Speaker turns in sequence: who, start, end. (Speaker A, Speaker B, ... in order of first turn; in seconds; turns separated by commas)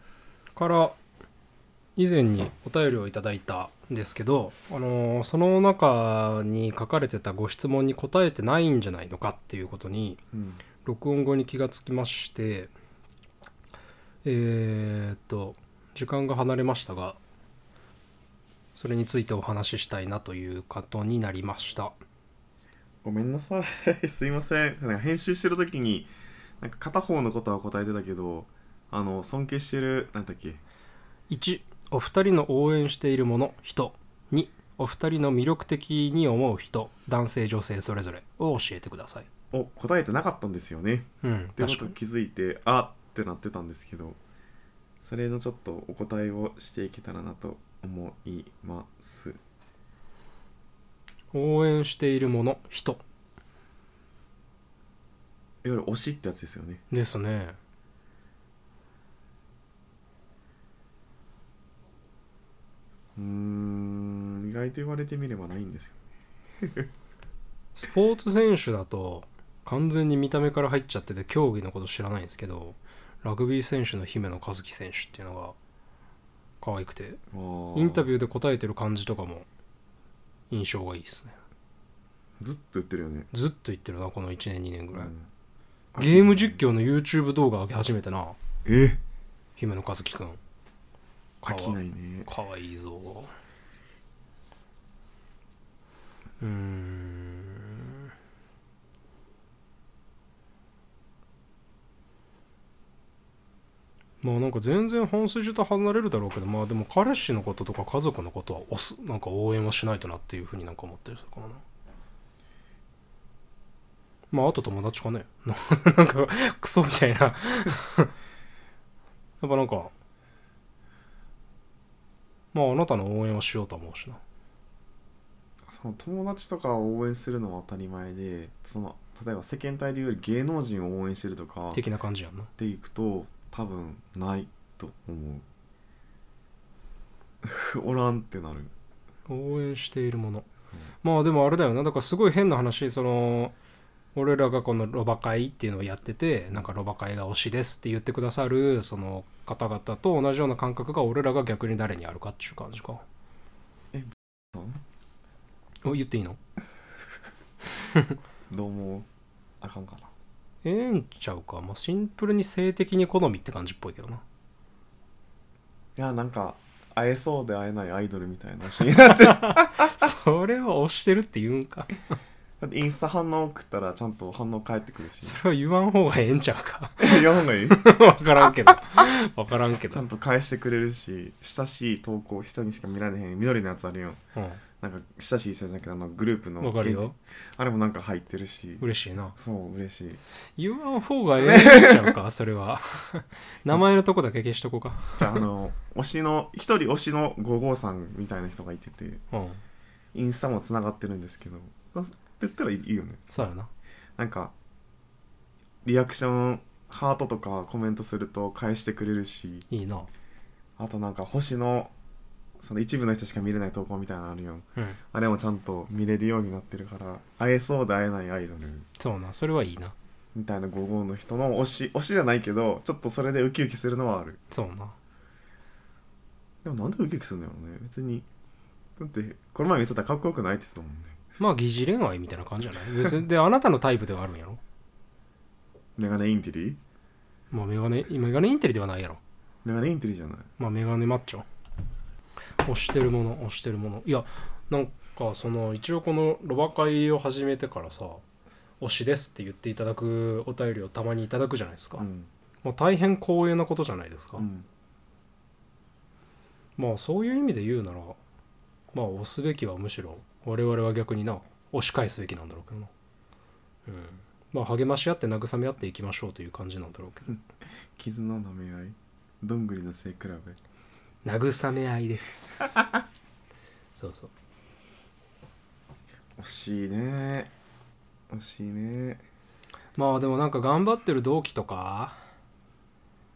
Speaker A: 0.5-1.0, Speaker A: 2.0-10.2, Speaker B: 10.3-10.6, Speaker A: 10.8-12.7, Speaker A: 14.2-17.2, Speaker A: 18.7-21.9, Speaker B: 23.0-30.6, Speaker A: 31.3-39.3, Speaker B: 39.5-44.2, Speaker A: 41.2-42.0, Speaker B: 45.0-49.4, Speaker A: 51.3-53.0, Speaker B: 55.6-56.8, Speaker A: 56.9-57.6, Speaker B: 63.2-66.0, Speaker B: 66.6-66.9, Speaker A: 67.8-75.6, Speaker A: 76.6-77.2, Speaker B: 77.3-78.1, Speaker A: 77.7-79.5, Speaker A: 80.5-81.4, Speaker B: 82.4-83.3, Speaker A: 83.3-85.1, Speaker B: 84.9-85.3, Speaker A: 85.9-88.4, Speaker B: 86.0-86.6, Speaker B: 88.6-89.0, Speaker A: 89.6-90.4, Speaker B: 91.4-92.3, Speaker A: 91.4-93.3, Speaker A: 96.4-98.1, Speaker A: 104.2-111.6, Speaker A: 114.3-118.1, Speaker A: 119.4-119.9, Speaker A: 122.5-124.2, Speaker B: 125.7-131.8, Speaker A: 131.7-132.5, Speaker B: 132.6-135.4, Speaker B: 137.4-138.7, Speaker A: 139.3-140.5, Speaker A: 141.0-143.5, Speaker A: 144.1-153.0, Speaker B: 153.9-154.8, Speaker A: 155.8-156.4, Speaker B: 158.5-159.1, Speaker B: 159.6-160.1, Speaker A: 160.6-164.2, Speaker B: 165.9-170.1, Speaker A: 169.1-172.0, Speaker B: 172.6-175.4, Speaker A: 175.2-180.0, Speaker B: 177.0-177.9, Speaker B: 179.9-184.2, Speaker A: 184.3-184.6, Speaker B: 184.8-190.2, Speaker A: 186.6-187.2, Speaker A: 188.8-189.3, Speaker A: 190.6-195.4, Speaker B: 191.4-192.2, Speaker B: 195.2-199.2, Speaker A: 199.3-199.6, Speaker B: 200.1-203.3, Speaker A: 203.3-203.7, Speaker B: 204.2-204.5, Speaker B: 205.8-209.7, Speaker A: 209.7-210.1, Speaker B: 210.8-211.9, Speaker B: 212.6-218.9, Speaker A: 219.0-219.9, Speaker B: 220.3-224.4, Speaker A: 224.5-225.0, Speaker B: 226.6-228.3, Speaker B: 229.0-231.2, Speaker A: 231.4-234.6, Speaker B: 236.0-236.8, Speaker A: 237.5-239.2, Speaker B: 239.6-240.5, Speaker A: 240.6-241.4, Speaker A: 242.6-248.2, Speaker A: 248.8-252.1, Speaker B: 252.0-252.3, Speaker A: 252.6-254.4, Speaker B: 254.3-254.7, Speaker A: 256.8-258.2, Speaker A: 258.9-262.9, Speaker A: 263.9-267.3, Speaker B: 267.9-270.6, Speaker A: 271.2-272.9, Speaker A: 273.9-274.3, Speaker B: 276.4-277.5, Speaker B: 278.3-279.2, Speaker A: 280.0-282.2